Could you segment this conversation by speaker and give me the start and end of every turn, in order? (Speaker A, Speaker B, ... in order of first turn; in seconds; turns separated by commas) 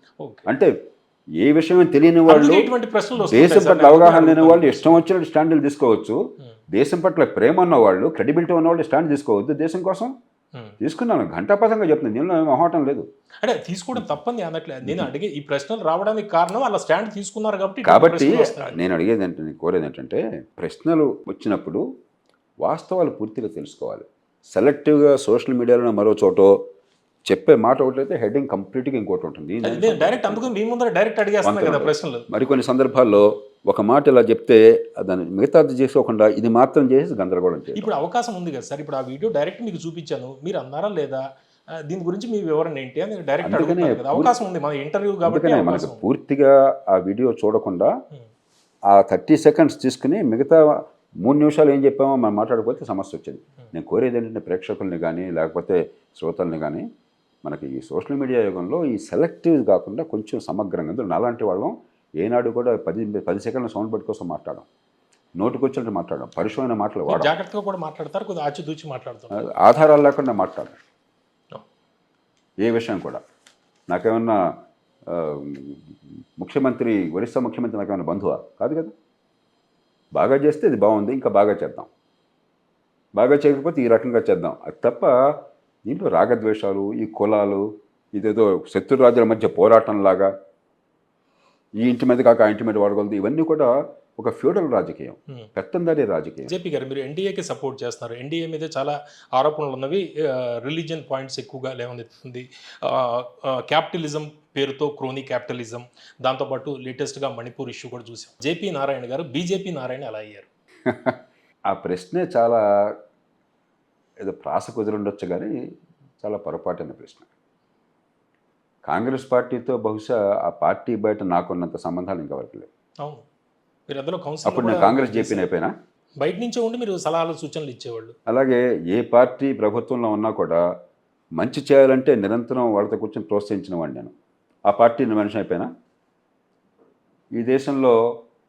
Speaker A: 0.2-0.5, Speaker B: 1.4-6.2, Speaker A: 2.2-5.0, Speaker B: 6.7-10.1, Speaker B: 10.8-13.1, Speaker A: 13.4-18.8, Speaker B: 14.8-15.1, Speaker B: 17.8-21.8, Speaker B: 22.6-26.6, Speaker B: 27.3-30.6, Speaker A: 29.6-32.3, Speaker B: 31.4-37.9, Speaker A: 37.7-41.2, Speaker A: 41.8-46.0, Speaker B: 43.4-44.3, Speaker B: 45.2-48.0, Speaker B: 48.9-56.8, Speaker B: 57.4-64.7, Speaker B: 65.4-67.3, Speaker A: 67.1-69.5, Speaker B: 69.3-70.8, Speaker B: 72.6-73.2, Speaker B: 73.9-74.5, Speaker B: 75.1-78.9, Speaker B: 80.1-81.9, Speaker B: 83.2-90.3, Speaker B: 91.8-96.5, Speaker A: 96.5-110.5, Speaker B: 110.8-112.9, Speaker B: 114.2-115.5, Speaker B: 116.2-117.3, Speaker B: 118.8-122.7, Speaker A: 123.9-125.5, Speaker B: 124.4-125.7, Speaker A: 126.2-128.2, Speaker B: 128.3-130.6, Speaker B: 131.4-134.1, Speaker B: 134.7-135.7, Speaker B: 137.3-137.9